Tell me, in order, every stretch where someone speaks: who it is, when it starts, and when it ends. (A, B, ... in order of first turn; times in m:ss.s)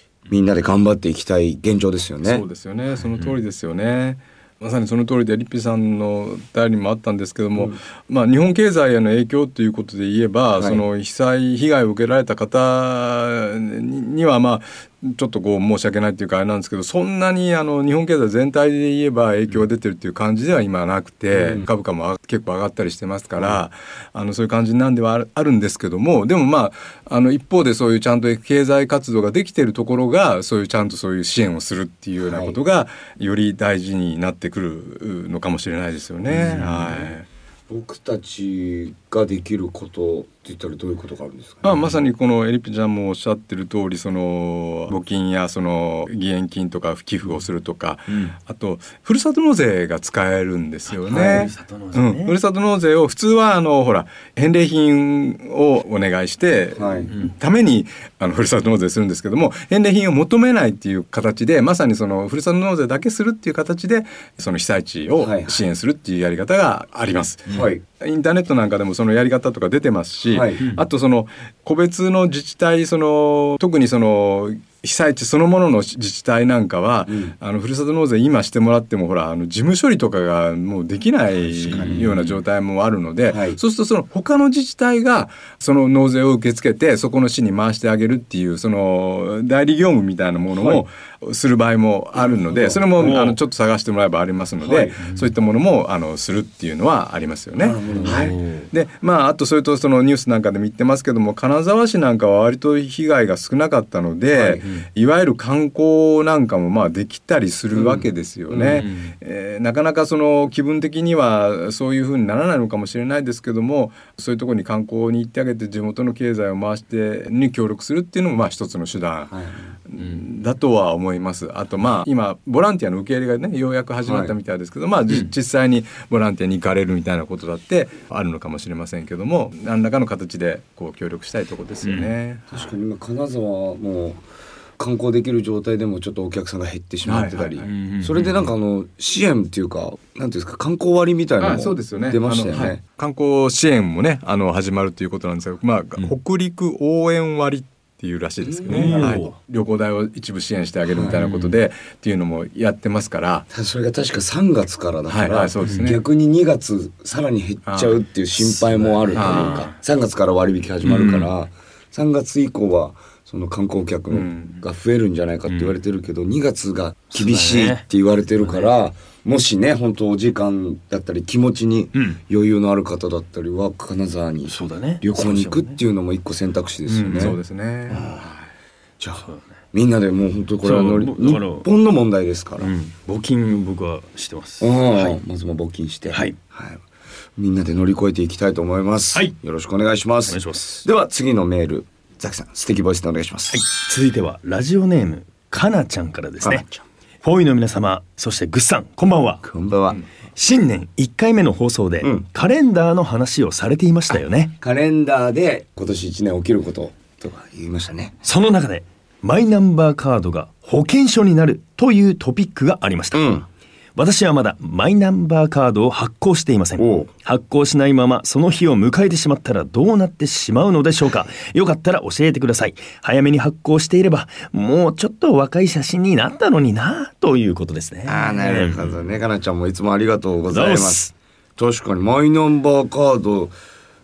0:00.3-0:02.4 A
0:02.2-0:37.3 B
0:10.6-0:10.8 A
0:21.3-0:21.7 A
0:32.2-0:32.6 A
0:36.3-0:37.0 A
0:36.4-0:37.0 C
0:37.7-0:42.0 A
0:41.6-1:59.3 B
0:51.1-0:52.4 C
0:51.1-0:51.5 A
0:56.8-0:57.1 A
1:05.2-1:05.6 A
1:07.5-1:07.8 A
1:10.3-1:10.6 A
1:17.1-1:17.3 A
1:21.6-1:22.1 A
1:21.7-1:22.4 C
1:23.3-1:23.6 A
1:30.5-1:30.8 A
1:32.2-1:33.1 A
1:33.0-1:33.4 C
1:34.6-1:35.0 A
1:37.6-1:38.4 A
1:37.9-1:38.7 C
1:44.3-1:44.6 A
1:47.7-1:48.9 A
1:48.7-1:49.1 C
1:59.3-1:59.7 A
1:59.9-2:12.7 B
2:04.0-2:04.3 A
2:11.8-2:12.1 C
2:12.5-2:14.2 A
2:14.8-2:22.8 A
2:17.0-2:17.7 B
2:17.6-2:18.5 C
2:21.4-2:33.5 B
2:28.4-2:29.2 A
2:28.7-2:29.3 C
2:30.9-2:31.2 A
2:31.1-2:31.6 C
2:33.5-2:57.4 A
2:35.1-2:36.0 B
2:37.7-2:38.0 B
2:38.4-2:39.8 C
2:39.2-2:39.7 B
2:40.8-2:41.3 C
2:44.1-2:44.6 B
2:45.5-2:45.8 C
2:47.1-2:47.8 C
2:48.4-2:48.7 C
2:54.5-2:55.8 C
2:56.9-2:57.4 C
2:57.0-2:58.4 B
2:57.9-2:58.3 A
2:59.0-3:02.7 A
3:00.6-3:01.7 C
3:02.6-3:05.2 C
3:04.6-3:06.8 A
3:07.4-3:13.6 A
3:10.3-3:10.8 C
3:13.5-3:16.6 C
3:16.4-3:16.8 A
3:17.2-3:19.4 C
3:19.4-3:20.0 A
3:20.4-3:24.5 C
3:24.2-3:28.2 A
3:28.2-3:33.3 C
3:33.1-3:33.5 A
3:34.0-3:49.0 C
3:36.8-3:37.1 A
3:48.1-3:53.5 A
3:50.5-3:51.1 C